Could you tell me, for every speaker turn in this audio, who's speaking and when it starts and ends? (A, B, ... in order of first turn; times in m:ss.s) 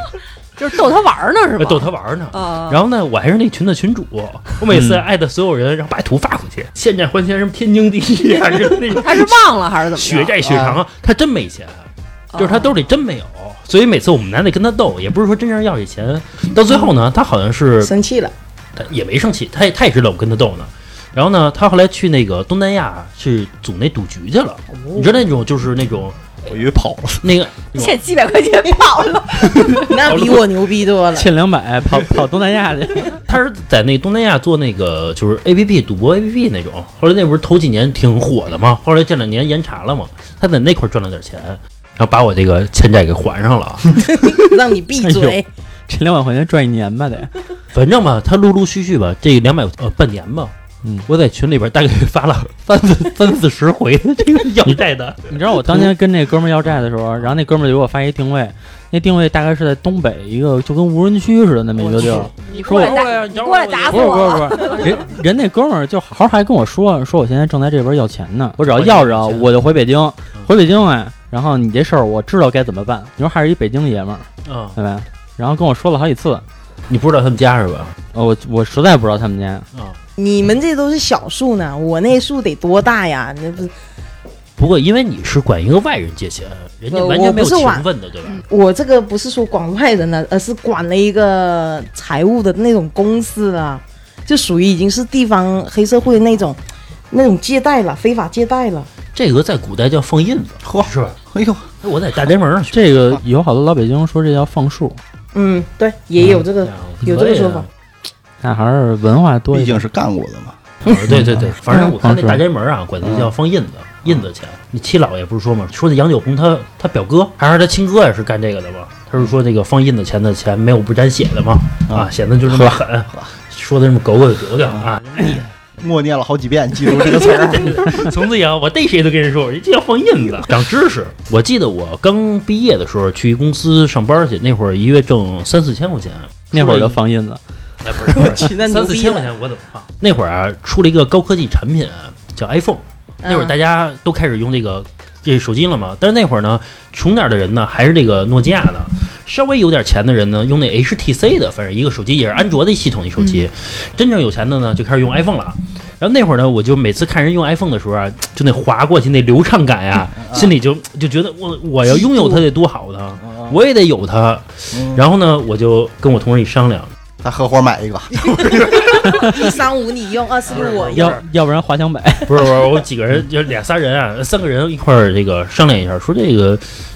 0:00.6-0:02.8 A
0:01.6-0:17.9 B
0:04.7-0:05.0 C
0:09.0-0:10.6 A
0:12.3-0:12.8 A
0:17.8-0:18.3 D
0:18.8-0:26.3 B
0:24.7-0:25.2 D
0:26.4-0:27.3 E
0:27.2-0:28.0 B
0:27.8-0:29.9 A
0:29.6-0:30.5 B
0:29.6-0:31.3 D
0:31.1-0:33.2 C
0:33.3-0:44.2 B
0:44.1-0:45.5 D
0:45.0-0:47.3 C
0:47.7-0:50.5 B
0:51.1-0:55.9 B
0:54.6-1:03.0 C
1:01.8-1:05.1 B
1:02.5-1:05.0 A
1:03.9-1:16.4 C
1:08.6-1:09.5 B
1:14.4-1:14.8 B
1:16.9-1:17.9 B
1:18.1-1:19.7 C
1:20.2-1:23.7 D
1:24.6-1:28.4 B
1:26.9-1:27.9 D
1:28.4-1:36.6 D
1:37.1-1:38.9 D
1:39.1-1:41.2 B
1:40.6-1:41.6 E
1:41.8-1:42.9 B
1:42.7-1:45.0 C
1:45.3-1:47.7 D
1:46.6-1:47.7 B
1:48.4-1:49.8 C
1:49.5-1:50.6 E
1:50.8-2:05.4 B
1:51.1-1:52.4 C
1:53.0-1:53.3 E
2:01.9-2:03.3 E
2:04.7-2:08.1 E
2:06.9-2:17.0 B
2:16.5-2:17.4 C
2:17.8-2:46.9 B
2:18.1-2:19.3 D
2:23.2-2:23.6 D
2:40.2-2:40.5 E
2:41.8-2:42.4 D
2:43.2-2:43.5 E
2:44.7-2:45.0 E
2:47.2-2:48.5 E
2:48.3-2:49.0 B
2:48.8-2:51.2 D
2:50.5-2:51.2 B
2:50.9-2:52.5 C
2:52.3-2:56.6 B